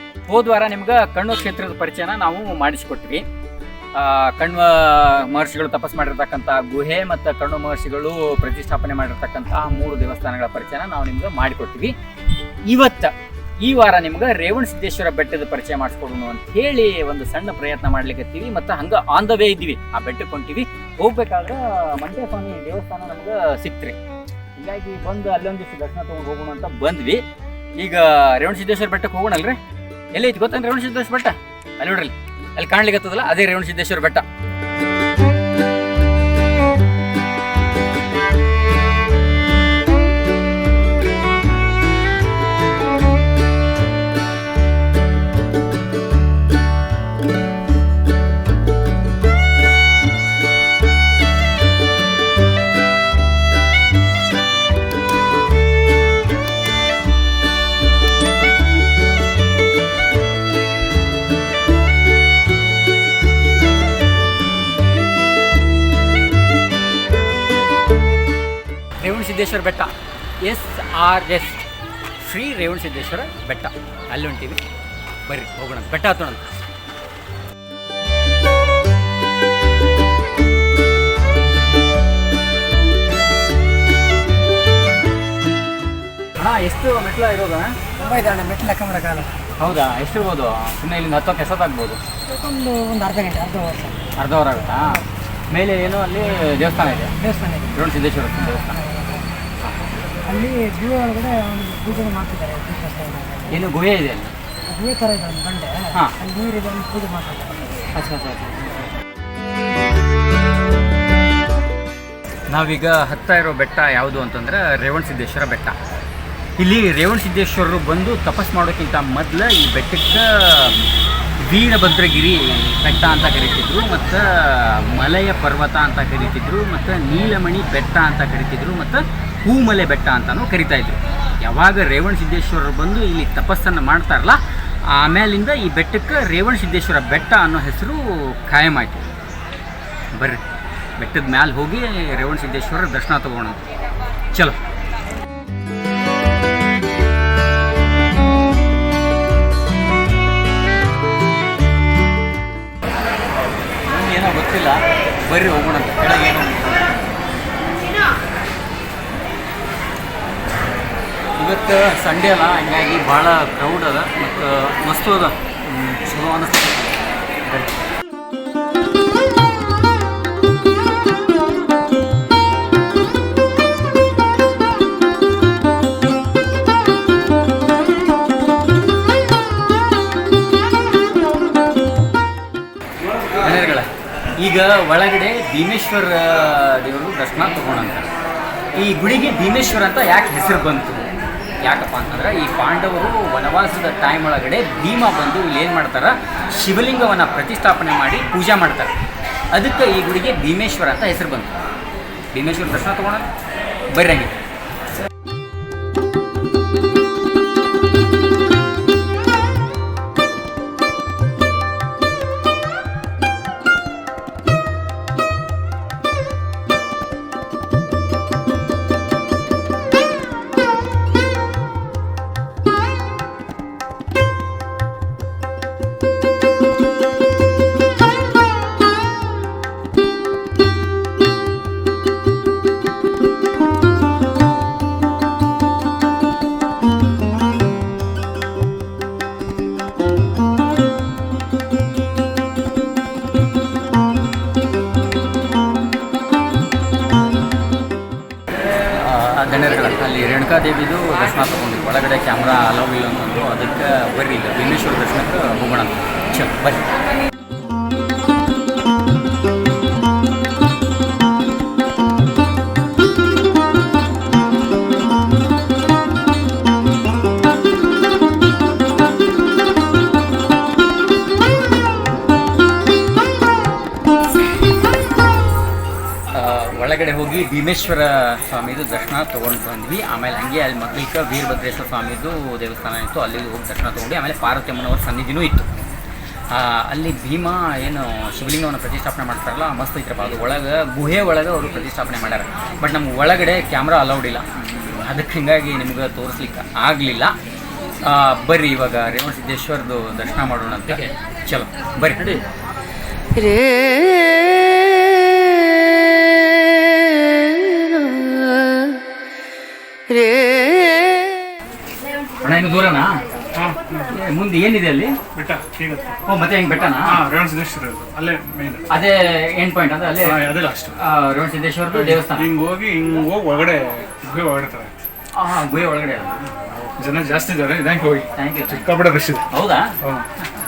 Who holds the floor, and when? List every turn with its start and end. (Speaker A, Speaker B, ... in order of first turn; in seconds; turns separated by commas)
Speaker A: 0.3-3.2, Speaker A: 3.9-11.9, Speaker A: 12.7-24.0, Speaker A: 24.6-27.2, Speaker A: 27.8-29.6, Speaker A: 30.1-34.2, Speaker A: 69.0-71.6, Speaker A: 72.2-74.6, Speaker A: 75.2-76.5, Speaker A: 86.4-87.8, Speaker B: 88.0-89.3, Speaker A: 89.6-92.0, Speaker B: 92.3-94.1, Speaker A: 94.1-97.2, Speaker B: 97.2-97.7, Speaker A: 97.7-98.8, Speaker B: 98.6-99.2, Speaker B: 100.3-103.5, Speaker A: 103.5-104.3, Speaker B: 104.7-107.8, Speaker A: 107.9-108.9, Speaker A: 112.5-115.8, Speaker A: 116.6-120.8, Speaker A: 121.4-139.1, Speaker A: 140.1-140.4, Speaker A: 141.0-143.6, Speaker A: 144.3-144.6, Speaker A: 153.8-156.8, Speaker A: 161.4-166.8, Speaker A: 167.4-167.7, Speaker A: 183.3-188.1, Speaker A: 188.8-191.1, Speaker A: 191.6-198.9, Speaker A: 199.5-201.5, Speaker A: 202.3-203.3, Speaker A: 203.9-204.3, Speaker A: 248.9-256.8, Speaker A: 276.3-285.7, Speaker A: 286.5-297.4, Speaker A: 298.0-302.4, Speaker C: 303.4-308.9, Speaker C: 310.2-311.3, Speaker A: 312.4-313.2, Speaker D: 313.6-314.0, Speaker A: 314.1-315.2, Speaker D: 315.3-316.1, Speaker A: 316.2-317.2, Speaker D: 317.0-318.9, Speaker A: 318.9-322.5, Speaker D: 320.2-320.9, Speaker D: 322.0-324.9, Speaker A: 325.3-326.5, Speaker D: 326.9-329.4, Speaker A: 328.3-328.9, Speaker A: 329.5-330.0